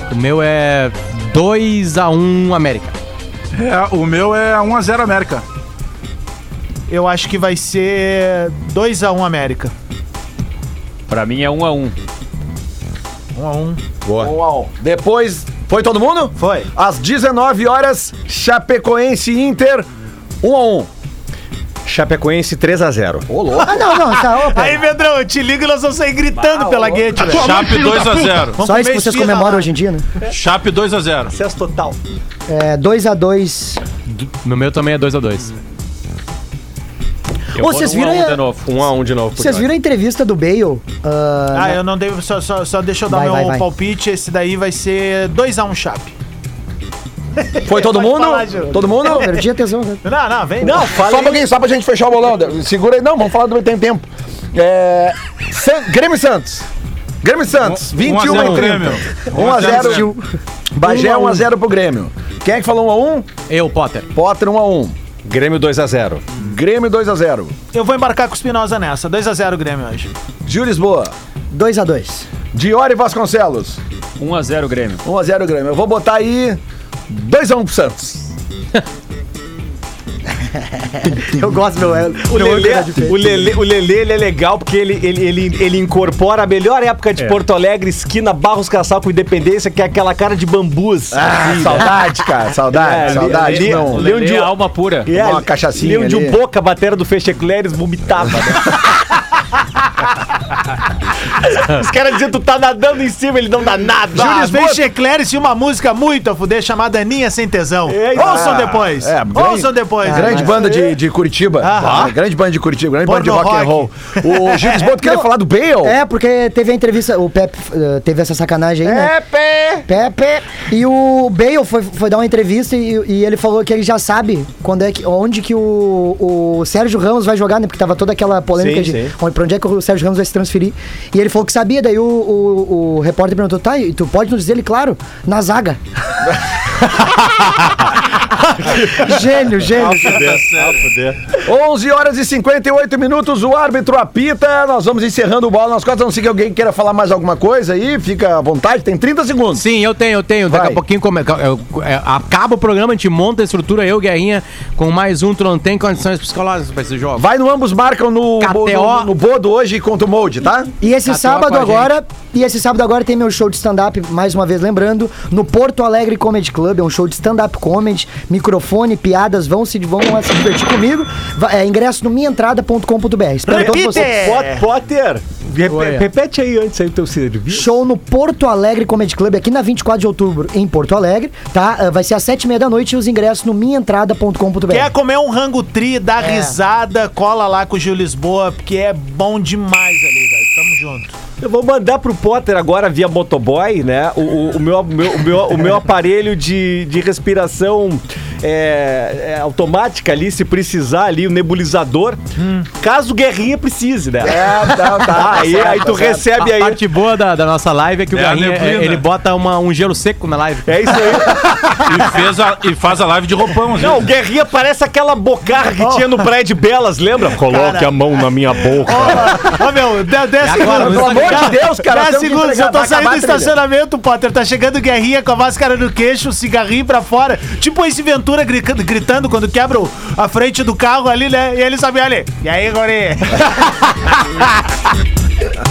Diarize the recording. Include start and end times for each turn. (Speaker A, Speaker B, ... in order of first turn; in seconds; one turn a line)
Speaker A: 0.1-3.0
Speaker B: 3.5-5.4
Speaker C: 6.9-9.7
Speaker D: 11.1-11.9
Speaker C: 13.3-13.8
Speaker E: 14.1-14.4
Speaker F: 14.2-19.9
Speaker C: 16.4-16.7
Speaker F: 20.4-20.9
Speaker E: 21.9-23.3
Speaker F: 23.3-23.8
Speaker C: 23.6-29.7
Speaker G: 23.6-24.9
Speaker E: 26.6-27.0
Speaker B: 27.2-28.6
Speaker G: 28.6-30.1
Speaker B: 30.3-31.3
Speaker E: 31.3-32.0
Speaker G: 32.5-33.8
Speaker A: 34.4-35.6
Speaker G: 37.6-38.4
Speaker D: 37.6-38.7
Speaker E: 38.6-39.7
Speaker G: 39.4-41.8
Speaker C: 41.5-46.1
Speaker G: 43.1-43.7
Speaker C: 47.4-49.4
Speaker F: 47.6-49.3
Speaker G: 48.7-50.0
Speaker C: 50.0-51.0
Speaker E: 50.6-51.4
Speaker F: 50.9-56.7
Speaker F: 57.2-60.1
Speaker B: 57.6-60.1
Speaker A: 58.2-58.7
Speaker C: 59.5-60.0
Speaker G: 59.8-60.2
Speaker F: 60.8-63.3
Speaker A: 60.8-61.4
Speaker A: 63.5-64.1
Speaker F: 64.1-65.0
Speaker E: 65.3-66.3
Speaker F: 66.4-67.5
Speaker C: 67.7-70.1
Speaker F: 70.5-71.1
Speaker G: 71.5-72.3
Speaker F: 72.5-73.8
Speaker D: 74.2-75.0
Speaker F: 75.0-78.3
Speaker G: 81.0-83.5
Speaker E: 82.3-92.1
Speaker F: 91.1-94.1
Speaker E: 92.7-94.5
Speaker D: 93.0-95.1
Speaker E: 95.1-98.9
Speaker F: 95.1-96.4
Speaker E: 101.5-104.5
Speaker F: 104.2-104.8
Speaker C: 104.2-110.6
Speaker E: 107.9-108.7
Speaker F: 108.2-116.0
Speaker G: 110.0-110.9
Speaker C: 111.6-112.1
Speaker E: 111.8-112.1
Speaker C: 113.0-114.9
Speaker G: 115.0-115.3
Speaker G: 115.8-119.1
Speaker F: 118.9-119.8
Speaker E: 118.9-119.2
Speaker G: 119.9-135.8
Speaker E: 128.6-129.2
Speaker G: 138.7-140.4
Speaker E: 139.7-141.2
Speaker B: 139.8-140.9
Speaker F: 141.4-149.7
Speaker A: 149.5-157.2
Speaker F: 150.5-150.8
Speaker F: 157.2-160.7
Speaker A: 158.4-159.1
Speaker G: 160.8-174.1
Speaker A: 161.0-161.9
Speaker C: 173.5-174.7
Speaker E: 173.5-177.7
Speaker A: 175.7-176.1
Speaker G: 177.5-184.9
Speaker C: 184.7-191.2
Speaker G: 186.2-186.6
Speaker E: 191.4-202.2
Speaker C: 202.4-202.7
Speaker E: 202.8-206.9
Speaker F: 204.2-206.3
Speaker A: 206.3-211.1
Speaker B: 208.1-209.0
Speaker E: 210.7-211.9
Speaker B: 211.8-214.0
Speaker E: 213.8-219.6
Speaker C: 215.8-216.3
Speaker C: 217.4-218.0
Speaker C: 218.7-233.8
Speaker A: 220.4-221.5
Speaker F: 220.7-223.5